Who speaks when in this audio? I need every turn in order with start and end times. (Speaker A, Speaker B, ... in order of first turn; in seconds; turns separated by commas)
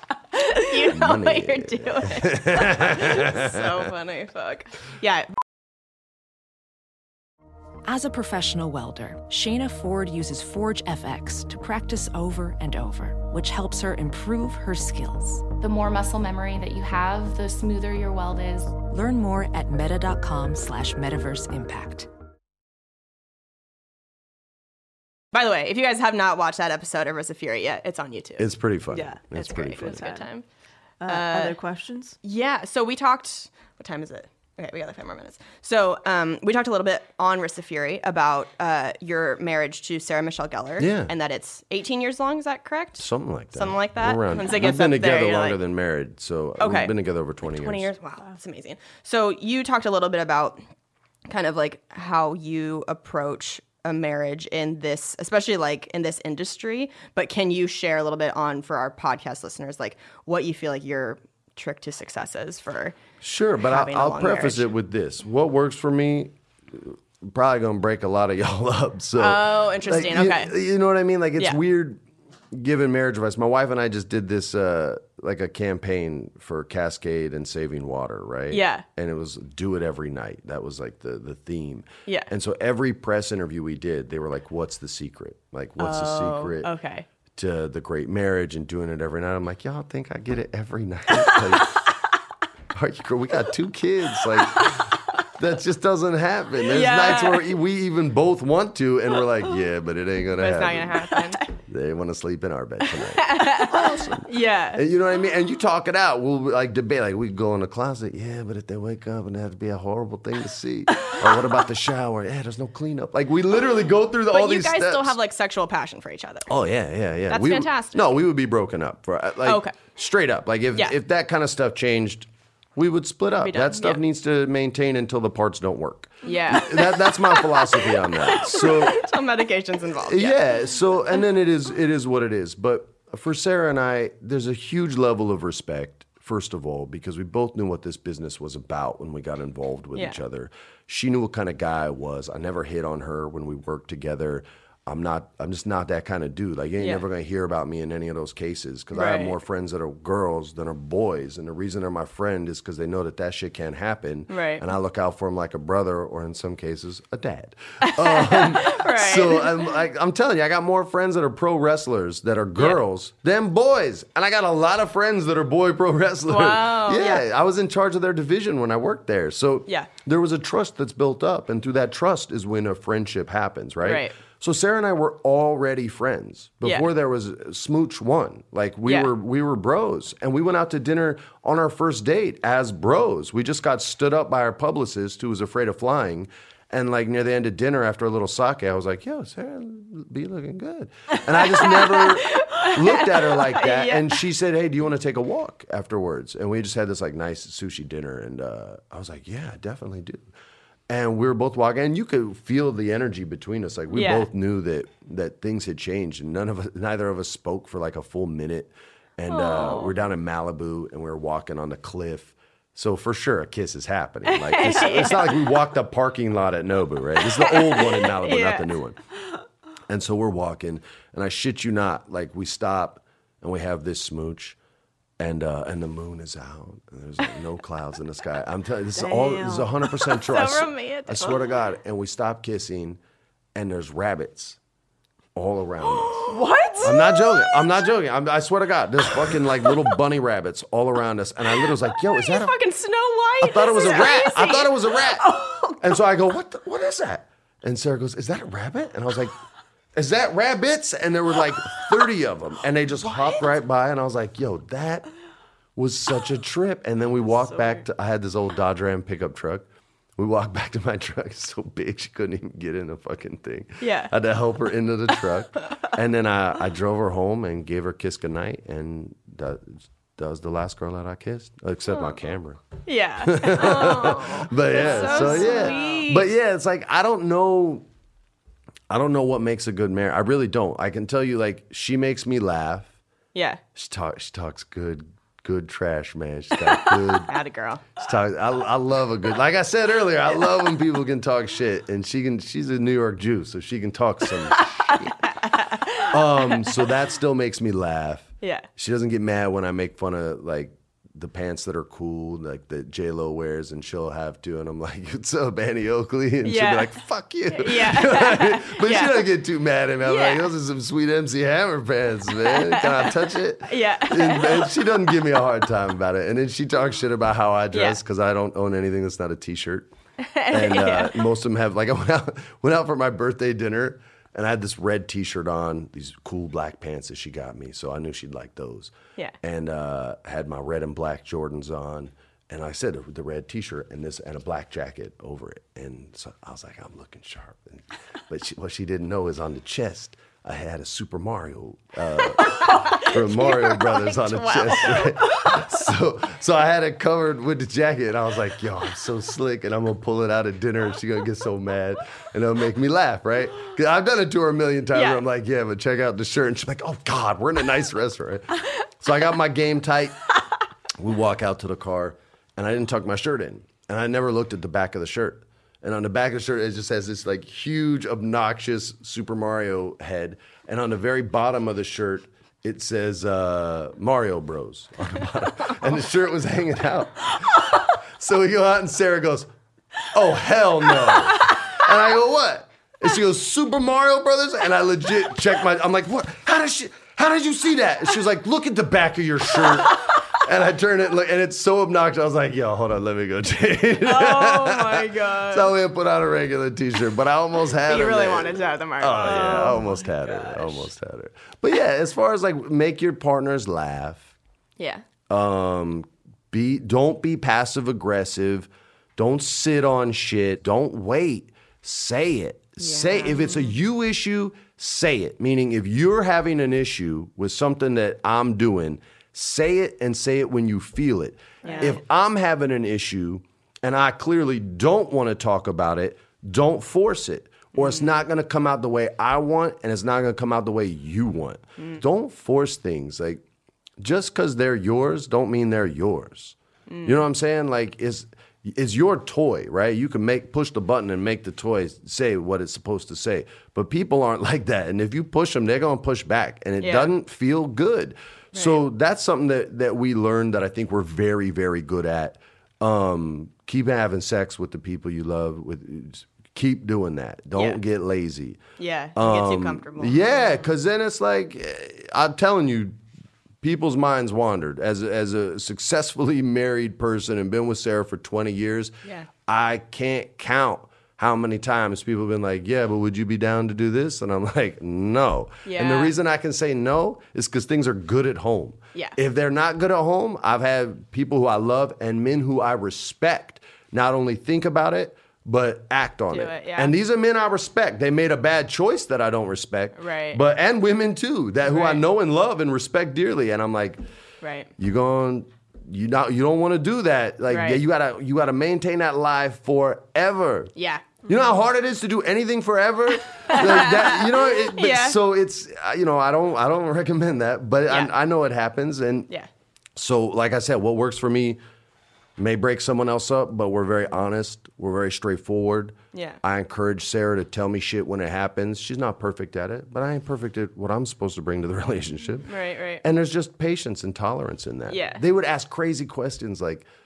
Speaker A: 0.3-5.3, Speaker B: 0.9-3.9, Speaker C: 7.8-15.5, Speaker D: 15.6-18.8, Speaker C: 18.8-22.1, Speaker A: 25.3-28.5, Speaker B: 28.4-30.0, Speaker E: 28.9-30.3, Speaker A: 29.4-30.4, Speaker E: 31.0-32.1, Speaker A: 31.0-31.6, Speaker A: 32.2-45.6, Speaker B: 40.8-41.1, Speaker B: 43.0-47.9, Speaker A: 46.6-50.6, Speaker A: 51.3-63.0, Speaker B: 63.2-72.0, Speaker A: 63.6-64.7, Speaker A: 69.2-70.5, Speaker B: 72.5-86.7, Speaker A: 78.5-78.8, Speaker A: 85.8-87.1, Speaker B: 87.3-91.8, Speaker B: 92.7-115.2, Speaker A: 96.7-97.5, Speaker A: 100.3-101.4, Speaker A: 103.1-104.8, Speaker A: 114.3-116.6, Speaker B: 116.5-129.0, Speaker A: 117.3-118.0, Speaker A: 119.4-119.8, Speaker A: 123.4-124.0, Speaker A: 126.2-130.4, Speaker B: 130.0-200.3, Speaker A: 139.9-140.2, Speaker A: 148.9-149.3, Speaker A: 154.3-154.7, Speaker A: 157.8-159.7, Speaker A: 166.3-167.2, Speaker A: 173.8-174.2, Speaker A: 176.6-176.9, Speaker A: 178.8-179.1, Speaker A: 191.5-194.2, Speaker B: 200.9-219.0, Speaker A: 203.9-204.3, Speaker A: 209.3-209.9, Speaker A: 214.3-215.4, Speaker A: 217.2-218.7, Speaker B: 219.9-224.6, Speaker B: 225.2-233.0, Speaker E: 228.9-229.9, Speaker A: 230.3-231.4, Speaker B: 233.5-234.6, Speaker B: 235.3-242.5, Speaker A: 235.9-236.9, Speaker E: 236.3-237.2, Speaker A: 242.1-244.8, Speaker B: 243.4-249.3, Speaker E: 245.2-245.8, Speaker B: 249.9-255.1, Speaker B: 255.8-272.6, Speaker A: 263.8-264.1, Speaker A: 272.9-276.3, Speaker B: 273.2-277.9, Speaker E: 274.8-276.0, Speaker B: 278.9-282.9, Speaker A: 283.3-283.6, Speaker B: 283.7-287.3, Speaker A: 287.3-287.9, Speaker B: 288.0-295.3, Speaker A: 295.2-296.8, Speaker B: 296.0-319.9, Speaker A: 298.4-298.7, Speaker A: 306.4-306.9, Speaker A: 307.5-309.2, Speaker A: 310.0-310.5, Speaker A: 312.4-313.1, Speaker A: 313.7-314.7, Speaker A: 317.7-318.0, Speaker A: 320.2-321.2, Speaker B: 320.5-360.2, Speaker A: 342.4-345.8, Speaker A: 354.9-355.2, Speaker B: 360.9-379.5, Speaker B: 380.1-404.3, Speaker A: 389.6-390.2, Speaker A: 394.0-395.7, Speaker A: 397.8-400.9, Speaker E: 399.4-399.7, Speaker A: 404.8-405.0, Speaker B: 405.3-433.4, Speaker A: 412.8-413.4, Speaker E: 413.4-413.7, Speaker E: 421.6-421.9, Speaker A: 421.6-422.0, Speaker A: 427.7-428.1, Speaker B: 434.0-458.6, Speaker A: 436.9-437.2, Speaker A: 446.8-447.1, Speaker A: 448.5-448.8, Speaker A: 457.5-457.8, Speaker A: 458.8-460.7, Speaker B: 459.1-463.0, Speaker B: 463.6-468.9, Speaker B: 469.5-494.0, Speaker A: 475.6-476.1, Speaker A: 486.3-486.9, Speaker A: 490.0-490.4, Speaker A: 491.7-492.0, Speaker A: 494.4-494.7, Speaker B: 494.8-500.7, Speaker A: 497.5-497.8, Speaker A: 500.8-501.3, Speaker B: 501.2-509.3, Speaker A: 503.5-505.2, Speaker A: 507.9-508.1, Speaker B: 509.9-511.6, Speaker B: 512.4-526.9, Speaker A: 516.1-516.4, Speaker A: 522.5-523.0, Speaker A: 524.9-525.2